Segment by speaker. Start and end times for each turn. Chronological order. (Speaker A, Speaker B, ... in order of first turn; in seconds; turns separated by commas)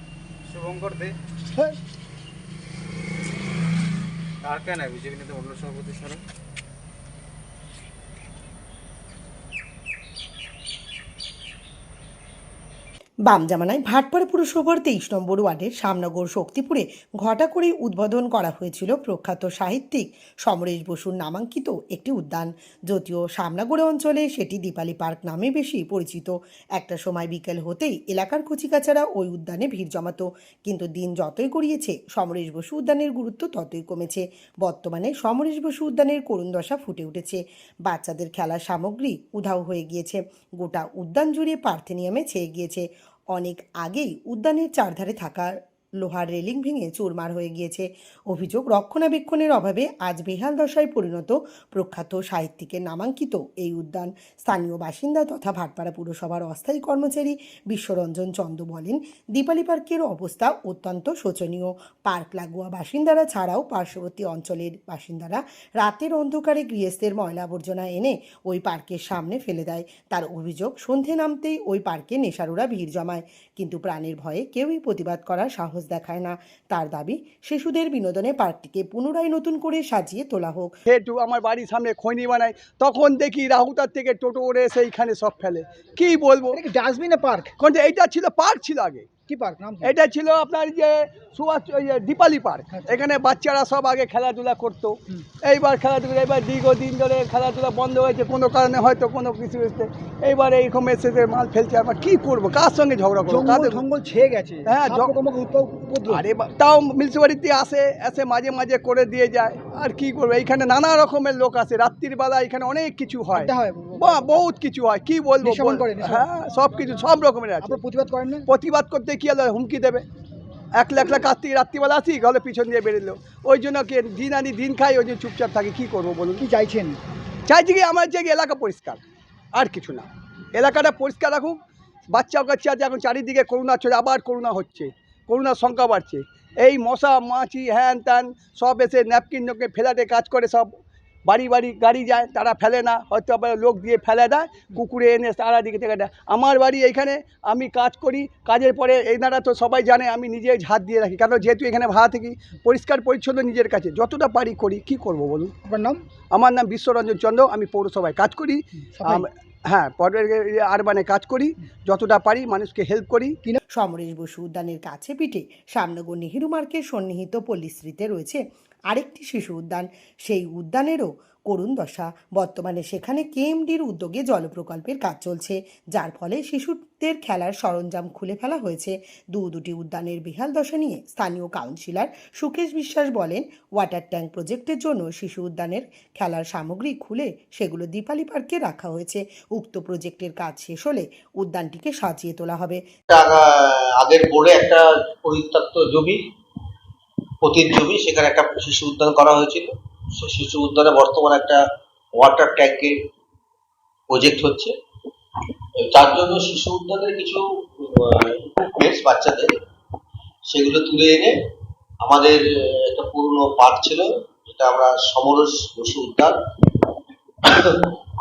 Speaker A: 0.5-1.1, Speaker A: 4.4-6.2, Speaker B: 13.2-80.7, Speaker C: 80.9-86.6, Speaker D: 86.5-87.6, Speaker C: 87.6-89.1, Speaker D: 89.3-89.9, Speaker C: 89.8-103.8, Speaker D: 92.7-93.0, Speaker D: 103.3-106.2, Speaker C: 104.7-105.1, Speaker C: 106.1-113.5, Speaker D: 113.3-114.4, Speaker C: 114.0-117.8, Speaker D: 115.4-116.3, Speaker D: 117.6-118.5, Speaker C: 118.5-120.0, Speaker C: 120.8-126.4, Speaker D: 126.4-127.0, Speaker C: 127.5-129.0, Speaker C: 129.5-131.6, Speaker C: 132.1-140.7, Speaker C: 141.2-155.5, Speaker D: 155.6-156.0, Speaker C: 156.3-163.4, Speaker D: 158.9-159.3, Speaker B: 163.7-192.8, Speaker E: 193.1-196.2, Speaker E: 197.4-201.6, Speaker E: 202.2-203.0, Speaker E: 204.1-204.7, Speaker E: 205.8-209.6, Speaker E: 210.5-211.3, Speaker E: 212.0-216.4, Speaker E: 217.4-217.9